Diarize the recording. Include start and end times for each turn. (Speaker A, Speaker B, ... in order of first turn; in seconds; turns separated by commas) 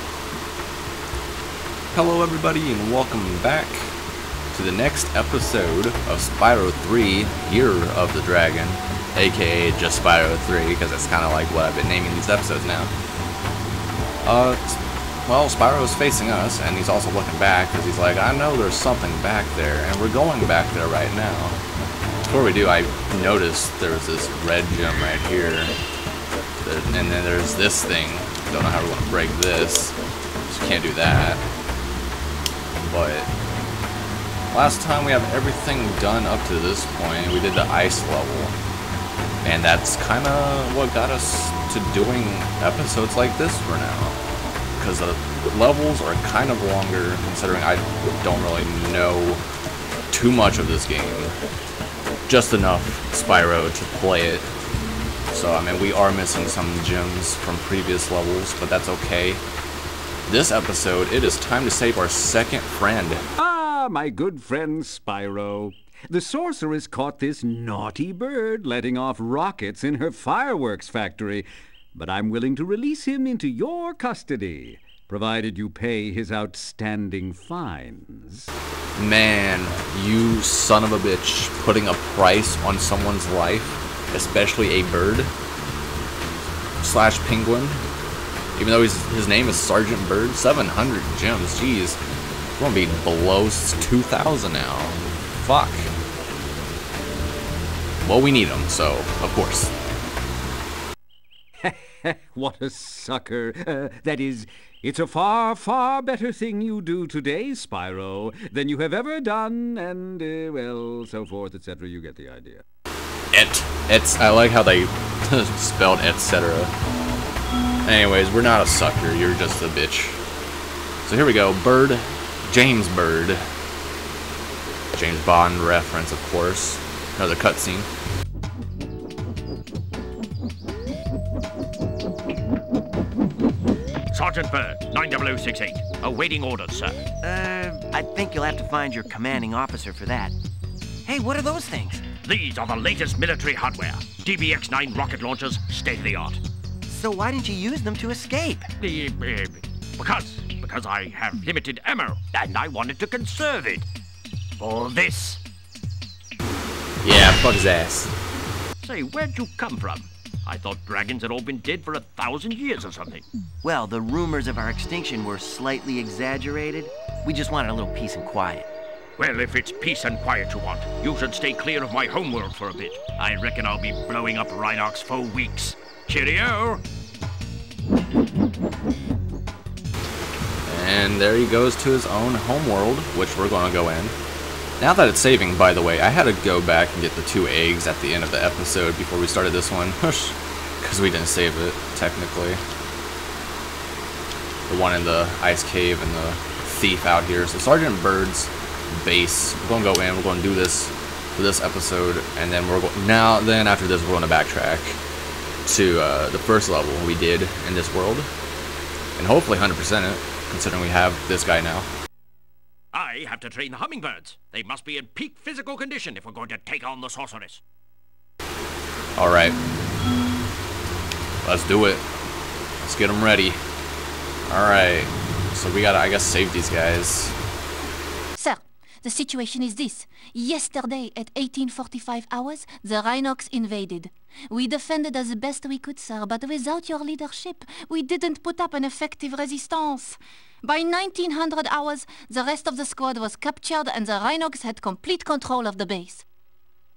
Speaker A: 1.9-3.9, Speaker A: 4.5-12.9, Speaker A: 14.2-21.6, Speaker A: 22.2-25.8, Speaker A: 26.6-29.9, Speaker A: 30.5-31.4, Speaker A: 32.9-33.3, Speaker A: 34.5-38.5, Speaker A: 39.4-44.2, Speaker A: 44.8-49.4, Speaker A: 50.1-51.3, Speaker A: 52.3-54.5, Speaker A: 55.3-59.4, Speaker A: 60.3-63.2, Speaker B: 63.4-78.5, Speaker A: 79.0-85.3, Speaker A: 86.8-87.8, Speaker A: 88.5-92.0, Speaker A: 92.6-95.9, Speaker A: 98.0-99.7, Speaker B: 101.6-112.6, Speaker A: 113.3-116.7, Speaker A: 117.8-120.2, Speaker A: 121.0-123.5, Speaker A: 124.9-127.9, Speaker C: 134.1-137.0, Speaker D: 137.2-140.3, Speaker D: 141.0-142.1, Speaker C: 142.2-146.4, Speaker D: 146.9-148.7, Speaker C: 148.8-153.8, Speaker C: 154.6-155.4, Speaker A: 157.0-158.1, Speaker C: 158.8-163.2, Speaker D: 163.6-168.6, Speaker C: 169.2-176.8, Speaker A: 180.7-184.1, Speaker A: 184.8-192.6, Speaker A: 194.7-205.0, Speaker A: 205.6-208.3, Speaker A: 209.2-211.9, Speaker C: 212.9-217.6, Speaker A: 219.2-219.6, Speaker A: 221.4-222.0, Speaker A: 222.8-223.6, Speaker A: 224.5-227.3, Speaker E: 228.3-246.2